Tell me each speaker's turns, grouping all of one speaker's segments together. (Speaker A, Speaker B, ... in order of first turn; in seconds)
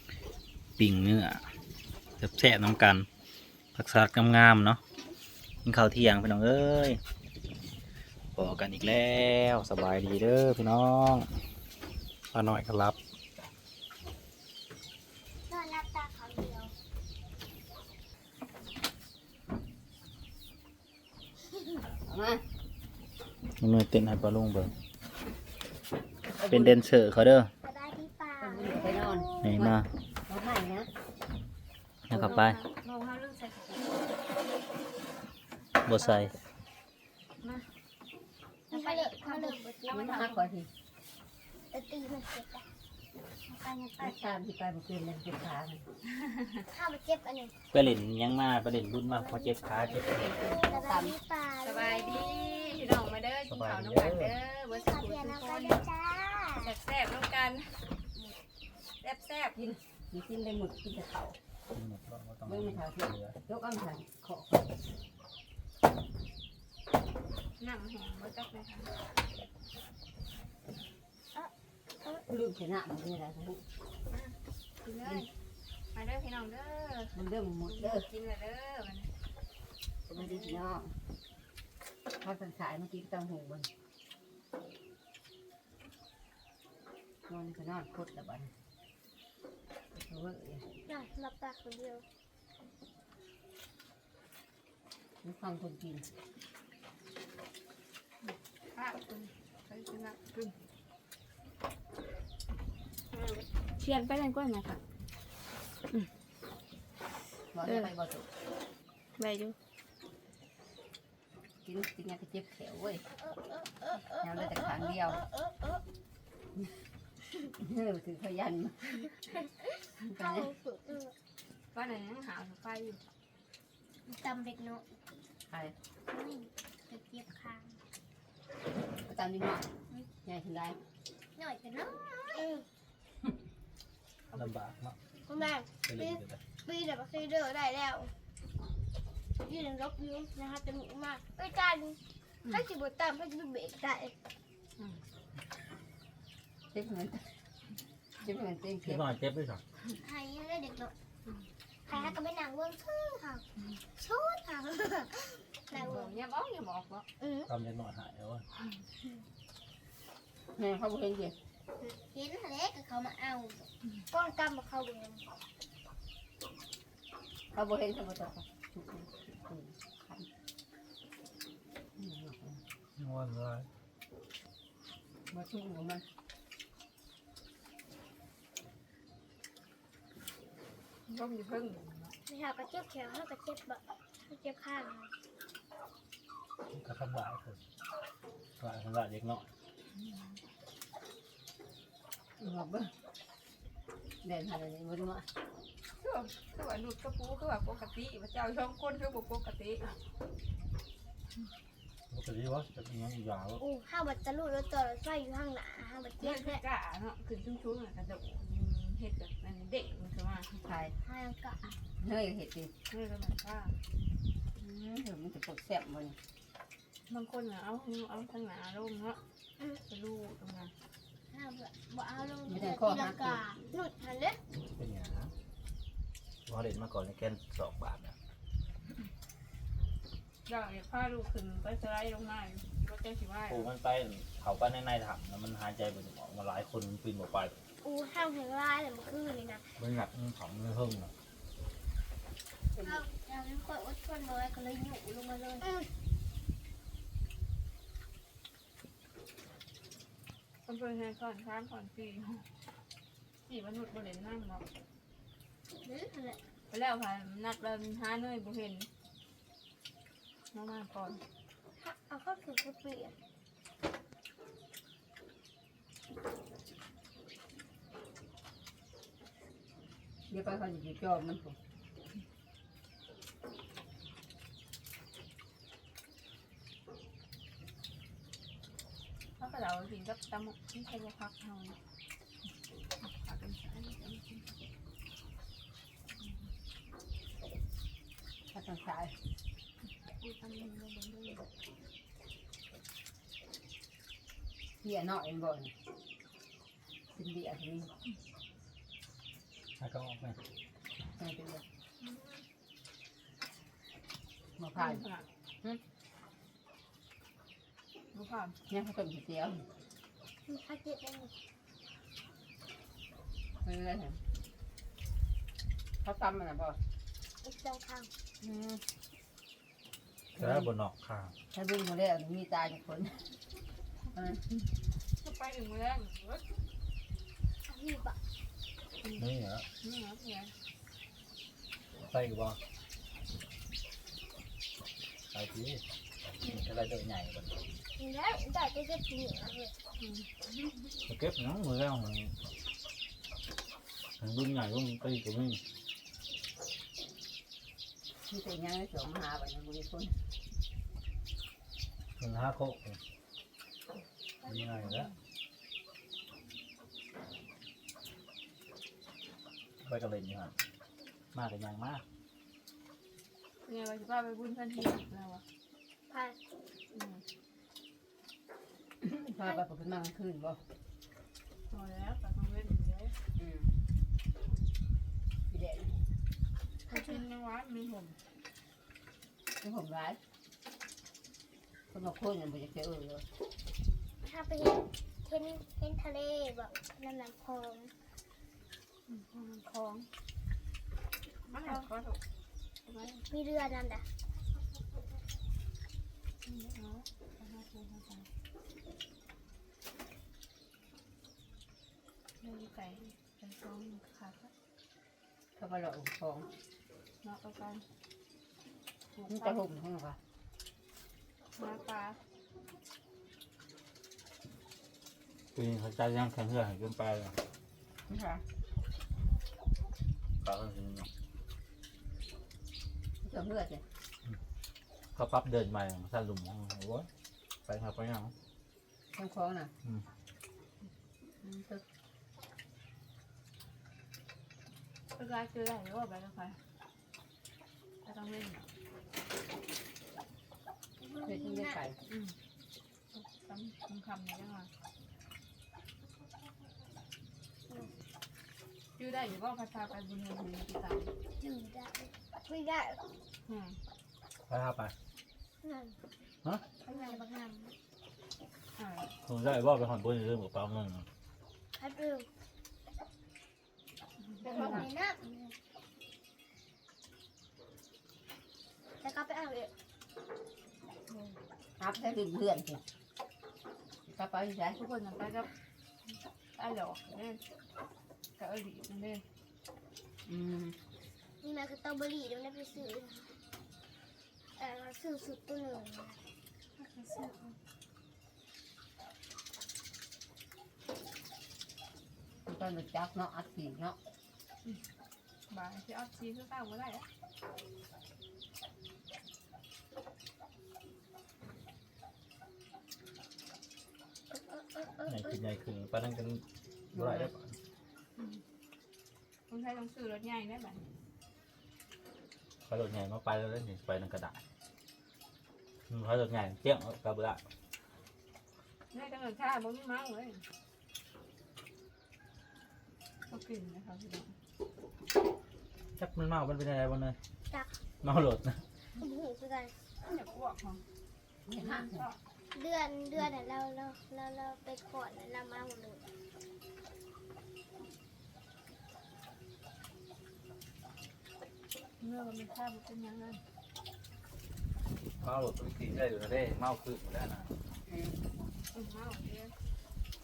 Speaker A: 0.8-1.4, 2.2-3.1, 3.7-4.8, 5.6-7.0, 8.3-11.3, 12.3-13.0, 23.6-24.7, 26.5-27.5, 29.4-29.9, 32.1-32.6, 35.8-36.3, 47.7-50.4, 53.5-54.3, 61.7-63.4, 134.3-135.0, 135.8-136.4, 148.8-149.6, 157.5-158.4, 173.0-173.7, 186.7-187.6, 188.6-189.5, 202.1-203.6, 224.6-225.3, 226.4-228.2, 233.5-237.6, 239.8-241.1, 299.8-300.4, 320.3-321.3, 329.1-329.6, 331.9-332.6, 335.3-335.8, 336.4-337.6, 341.0-342.3, 344.2-345.6, 352.2-353.0, 354.4-355.1, 359.8-360.6, 361.3-362.0, 415.5-417.4, 420.4-421.1, 425.1-427.1, 427.6-428.3, 454.5-454.9, 459.2-461.1, 505.0-507.6, 512.7-514.4, 515.9-517.4, 526.0-527.2, 528.0-528.6, 545.2-547.5
Speaker B: 15.5-16.7, 27.6-29.6, 38.7-40.0, 41.7-42.6, 46.7-47.5, 49.2-52.8, 54.7-56.7, 90.8-92.0, 113.1-115.8, 120.2-121.1, 124.0-124.9, 126.1-127.8, 131.3-132.6, 135.2-138.1, 139.4-144.1, 149.9-150.9, 151.8-153.4, 153.9-156.1, 157.2-157.5, 161.8-165.2, 182.2-185.1, 203.6-206.6, 211.0-211.7, 221.3-224.4, 237.8-239.8, 242.8-245.9, 255.8-256.4, 261.8-263.1, 310.4-311.3, 317.4-318.1, 327.6-328.2, 337.9-339.7, 366.1-366.4, 384.2-387.9, 393.2-394.0, 441.0-441.9, 451.4-453.0, 455.6-456.0, 456.8-457.7, 461.7-462.3, 464.5-465.5, 469.0-469.7, 481.4-483.3, 484.6-486.2, 504.3-505.3, 528.9-529.7, 532.5-536.0
Speaker C: 22.0-22.4, 26.3-26.8, 28.4-30.9, 32.1-32.4, 39.9-40.7, 44.0-45.8, 50.2-51.1, 59.5-61.4, 62.5-64.8, 72.2-73.6, 77.1-78.1, 80.1-81.0, 82.2-83.7, 87.3-88.5, 89.9-90.7, 95.2-96.1, 107.5-108.3, 111.6-113.0, 114.2-115.2, 117.5-119.1, 120.0-120.5, 129.0-129.7, 130.2-130.8, 146.7-147.3, 148.2-149.1, 160.6-161.3, 167.5-170.3, 172.0-172.6, 175.3-176.0, 192.4-192.9, 194.2-195.3, 210.6-210.9, 212.0-212.7, 214.6-216.2, 222.4-223.4, 242.7-243.0, 270.3-271.6, 288.5-289.2, 294.8-295.7, 297.1-297.9, 301.1-301.6, 304.6-305.0, 308.7-309.6, 313.6-314.2, 316.0-316.8, 318.4-318.8, 320.4-320.7, 321.5-323.3, 324.1-324.6, 348.2-350.2, 369.0-370.6, 373.4-373.7, 375.5-375.9, 379.6-380.2, 381.9-383.2, 405.6-406.5, 409.3-410.2, 418.1-418.4, 423.2-423.8, 429.1-429.7, 431.4-431.8, 441.2-442.0, 464.4-464.8, 471.8-472.8, 474.1-474.8, 480.2-480.8, 492.4-494.0, 506.9-507.3, 531.5-532.0, 547.9-548.2
Speaker D: 32.2-34.1, 36.0-36.3, 37.4-37.7, 38.7-40.5, 43.5-44.2, 46.1-46.6, 51.6-55.9, 56.6-57.8, 59.0-59.5, 67.6-68.9, 74.1-75.3, 75.9-77.1, 77.7-79.1, 80.1-80.6, 98.7-100.5, 103.7-104.8, 107.6-107.9, 109.2-109.5, 121.7-123.0, 155.7-157.1, 181.1-182.1, 189.9-190.4, 195.9-200.0, 206.2-210.6, 212.9-213.8, 217.1-219.2, 219.9-220.7, 230.4-233.7, 250.6-252.5, 253.4-254.6, 256.7-258.9, 260.5-261.2, 279.4-281.8, 283.0-284.5, 290.1-291.4, 302.0-302.4, 304.8-305.3, 308.1-308.6, 325.2-326.5, 329.8-330.5, 340.0-340.3, 354.4-355.1, 363.6-365.4, 366.9-367.2, 371.7-373.1, 376.9-378.2, 389.1-390.1, 391.5-392.2, 392.9-393.2, 396.4-398.3, 402.4-404.5, 407.2-407.8, 409.1-409.6, 411.6-412.2, 435.1-436.6, 438.0-438.7, 442.1-442.4, 443.1-444.7, 448.9-451.1, 453.5-453.8, 458.8-459.1, 464.4-464.8, 471.1-471.4, 474.8-475.5, 476.5-477.4, 478.4-479.2, 486.8-487.6, 495.5-497.1, 509.5-510.8, 518.9-520.4, 523.2-524.3, 530.0-530.8, 531.6-532.2, 542.0-543.4, 548.7-549.5